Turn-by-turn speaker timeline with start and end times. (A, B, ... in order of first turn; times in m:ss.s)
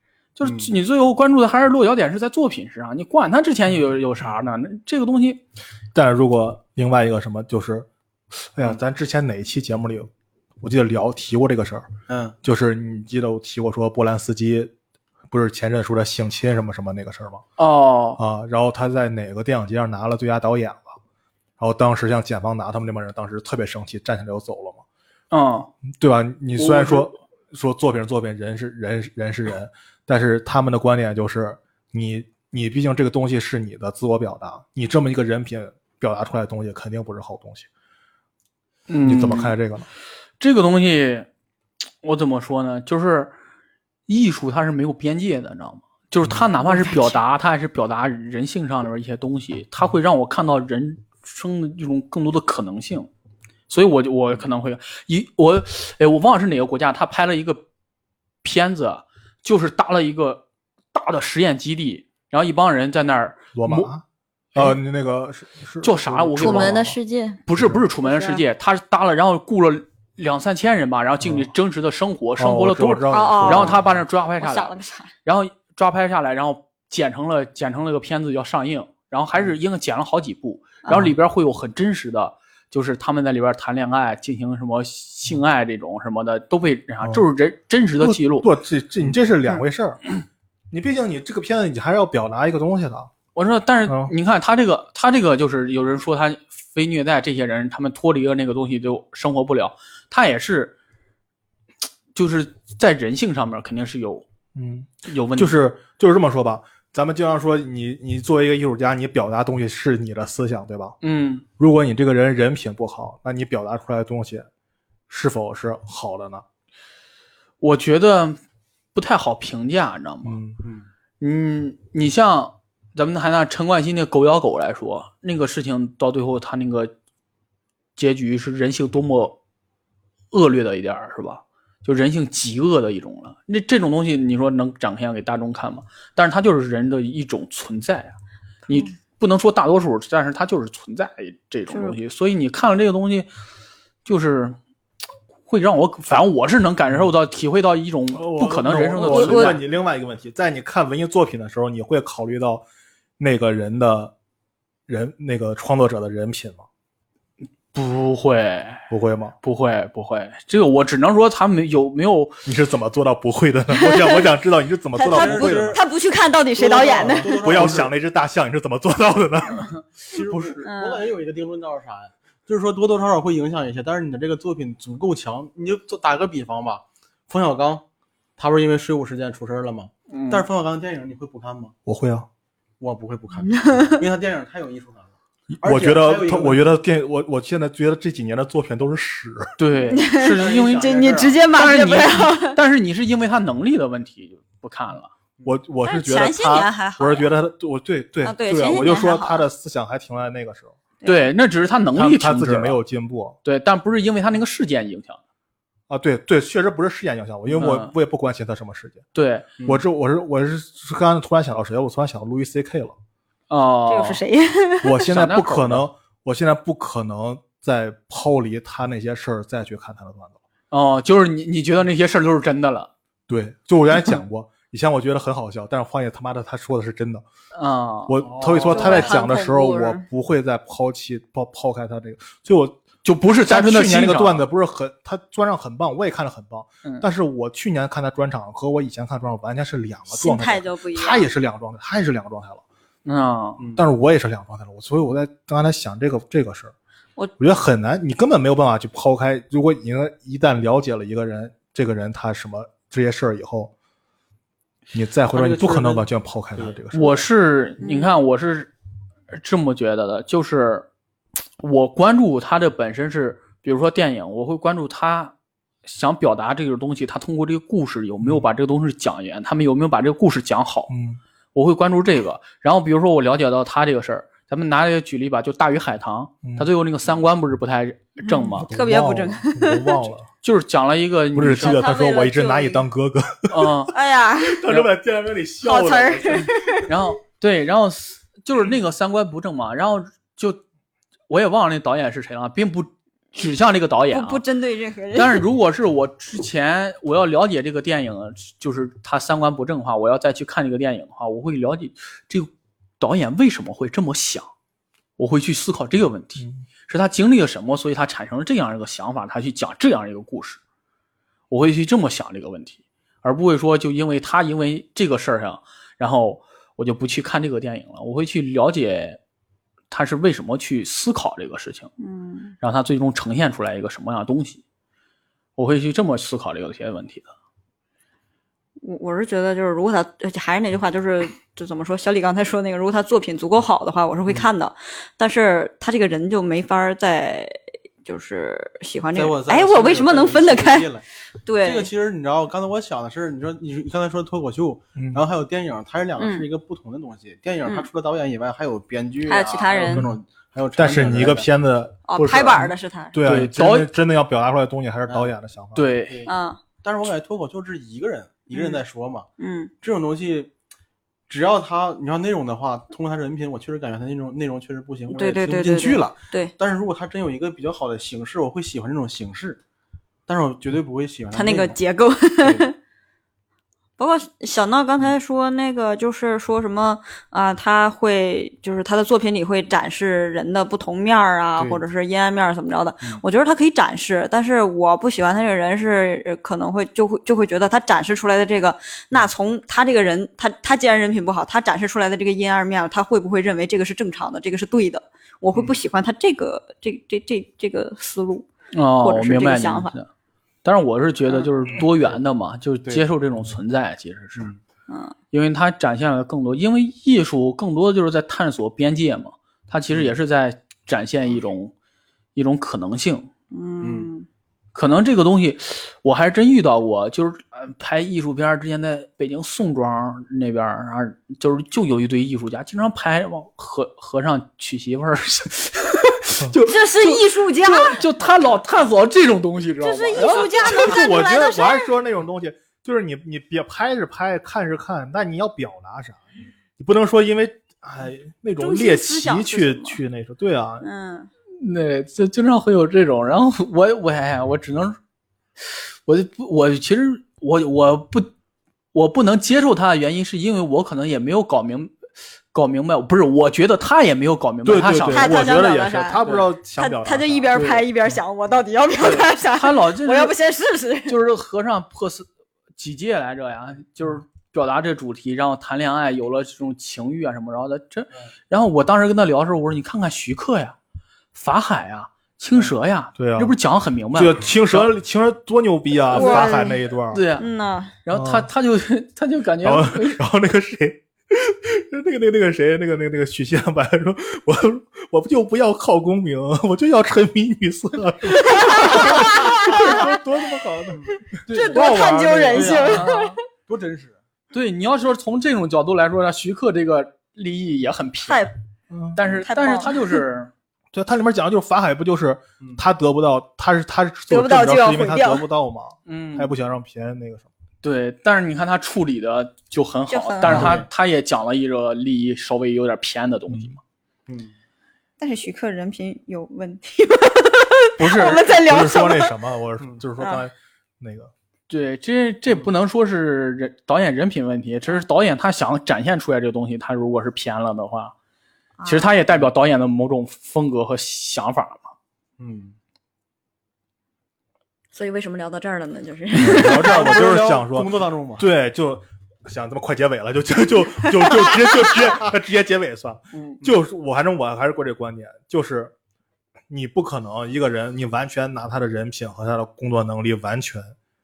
0:00.4-0:05.4 A
0:00.4-0:00.7 B
0:05.9-0:07.9 C
0:08.5-0:10.1 C
0:10.6-0:11.9 C
0:12.1-0:12.4 B
0:12.4-0:14.7 C
0:15.3-0:17.4 C
0:17.6-0:18.2 A
0:18.2-0:21.0 C
0:21.6-0:24.8 C
0:25.3-0:25.7 A
0:26.0-0:37.7 C
0:26.6-0:27.1 A
0:38.9-0:39.5 A
0:39.0-0:39.9 C
0:40.4-0:41.3 A
0:42.0-0:43.3 A
0:44.1-0:53.1 A
0:46.6-0:47.2 D
0:53.7-0:57.6 A
0:58.4-1:03.9 A
1:03.5-1:04.0 C
1:04.5-1:07.0 C
1:05.8-1:06.8 A
1:06.4-1:07.4 D
1:07.4-1:14.7 A
1:07.5-1:07.8 C
1:08.0-1:08.4 D
1:11.2-1:11.5 C
1:12.4-1:14.0 C
1:13.1-1:13.8 D
1:14.4-1:15.1 D
1:15.2-1:28.5 A
1:20.9-1:21.1 C
1:28.0-1:30.0 C
1:30.7-1:33.1 C
1:33.3-1:40.7 A
1:33.9-1:34.1 C
1:42.1-1:44.2 A
1:44.5-1:51.0 C
1:45.0-1:45.5 A
1:51.0-1:51.4 A
1:51.6-1:54.5 C
1:55.1-1:56.4 C
1:57.6-1:58.4 A
1:58.9-2:00.4 A
2:00.2-2:00.6 C
2:00.6-2:00.9 B
2:01.2-2:06.9 A
2:08.0-2:09.3 A
2:10.3-2:18.2 A
2:18.7-2:23.3 A
2:21.7-2:22.0 D
2:24.0-2:24.6 A
2:25.5-2:29.6 A
2:28.1-2:32.6 C
2:29.0-2:29.6 D
2:33.2-2:34.1 C
2:34.9-2:36.6 C
2:37.7-2:38.9 A
2:38.9-2:39.3 C
2:39.4-2:42.4 A
2:42.4-2:45.8 C
2:43.7-2:44.3 D
2:44.9-2:47.6 D
2:45.1-2:45.8 B
2:46.5-2:47.9 B
2:47.0-2:50.6 C
2:50.1-2:57.8 B
2:50.6-2:51.1 D
2:58.4-3:01.7 B
3:00.1-3:00.4 A
3:01.8-3:02.3 C
3:02.8-3:05.1 B
3:03.4-3:04.0 D
3:05.5-3:09.5 C
3:05.6-3:06.6 B
3:09.6-3:10.9 A
3:09.8-3:12.6 D
3:10.2-3:11.4 B
3:11.5-3:15.1 A
3:15.4-3:20.8 C
3:15.8-3:17.3 D
3:18.2-3:19.4 D
3:21.0-3:21.3 D
3:21.0-3:22.8 A
3:21.9-3:23.4 C
3:23.4-3:25.2 A
3:25.9-3:29.0 C
3:27.5-3:27.9 A
3:29.1-3:29.5 A
3:29.6-3:33.0 C
3:33.5-3:34.2 A
3:33.9-3:35.0 D
3:34.8-3:40.4 C
3:35.0-3:35.8 A
3:40.7-3:42.9 A
3:43.3-3:47.2 C
3:47.5-3:48.2 A
3:48.1-3:52.8 C
3:48.2-3:49.2 B
3:48.7-3:50.0 D
3:53.0-3:54.4 A
3:53.4-4:02.6 C
4:00.1-4:01.3 D
4:03.0-4:03.6 A
4:03.6-4:03.8 B
4:03.8-4:06.7 C
4:07.4-4:13.7 C
4:14.9-4:17.2 C
4:15.3-4:16.8 B
4:16.9-4:18.7 A
4:17.8-4:18.1 D
4:19.3-4:20.9 A
4:21.6-4:25.3 A
4:25.8-4:30.9 A
4:30.9-4:31.2 C
4:31.5-4:38.7 A
4:36.4-4:36.7 C
4:38.2-4:40.0 D
4:38.7-4:40.3 C
4:40.4-4:41.8 A
4:41.3-4:43.9 C
4:41.6-4:42.8 D
4:43.5-4:43.9 A
4:43.9-4:44.7 D
4:44.4-4:46.8 C
4:45.6-4:46.9 D
4:46.8-4:50.6 A
4:51.3-4:54.4 A
4:54.1-4:55.4 D
4:55.1-5:04.5 A
5:05.2-5:10.6 A
5:11.5-5:19.2 A
5:19.9-5:21.9 A
5:22.0-5:22.5 D
5:22.6-5:24.6 A
5:25.6-5:27.3 A
5:28.8-5:40.9 D
5:39.1-5:41.0 B
5:41.4-5:41.9 D
5:41.6-5:51.5 B
5:45.0-5:45.2 C
5:46.2-5:46.4 D
5:49.2-5:50.1 D
5:49.8-5:50.1 C
5:50.7-5:55.9 C
5:52.1-5:53.2 D
5:53.2-5:53.9 A
5:55.7-5:56.2 A
5:56.1-5:59.3 B
5:56.2-5:56.6 D
5:58.5-5:58.8 D
5:59.4-5:59.7 D
5:59.8-6:00.5 B
6:01.3-6:09.6 B
6:05.1-6:06.5 D
6:10.3-6:11.7 B
6:11.3-6:12.8 D
6:14.0-6:39.9 D
6:21.6-6:21.8 B
6:38.7-6:40.1 A
6:40.6-6:44.5 A
6:44.9-6:45.1 D
6:45.3-6:51.7 A
6:52.3-6:53.3 A
6:53.5-6:54.3 D
6:53.8-6:54.1 B
6:54.7-7:10.5 A
7:06.6-7:08.0 D
7:09.8-7:11.9 D
7:10.6-7:16.2 C
7:16.8-7:20.8 C
7:18.6-7:20.0 D
7:20.8-7:21.3 D
7:21.6-7:25.0 A
7:25.6-7:28.3 A
7:28.9-7:31.9 A
7:32.5-7:35.4 A
7:34.6-7:37.6 C
7:35.1-7:41.2 D
7:37.5-7:37.8 A
7:39.0-7:40.3 A
7:41.1-7:50.8 A
7:51.3-7:54.9 A
7:53.2-7:53.6 C
7:54.1-7:57.2 C
7:56.1-7:56.8 D
7:56.1-7:57.4 A
7:57.4-7:57.9 D
7:58.0-8:00.2 A
7:58.1-7:58.5 C
7:59.6-8:11.2 C
8:08.4-8:10.2 D
8:10.9-8:13.1 B
8:11.5-8:13.4 A
8:11.5-8:13.4 D
8:13.6-8:14.2 B
8:14.5-8:18.5 A
8:18.3-8:18.5 D
8:18.9-8:19.2 C
8:19.2-8:20.5 A
8:19.4-8:20.2 D
8:20.9-8:27.5 C
8:24.3-8:25.4 D
8:26.0-8:26.5 A
8:27.8-8:33.8 A
8:30.1-8:30.6 D
8:30.4-8:30.8 C
8:30.4-8:30.8 B
8:34.3-8:34.5 B
8:35.2-8:39.3 D
8:38.1-8:38.4 A
8:38.1-8:41.3 C
8:41.7-8:48.1 A
8:48.8-8:49.1 D
8:48.8-8:51.9 A
8:52.4-8:52.8 B
8:54.9-8:56.9 D
8:56.3-9:05.9 C
8:56.4-8:58.4 B
9:03.3-9:03.6 A
9:06.7-9:10.9 C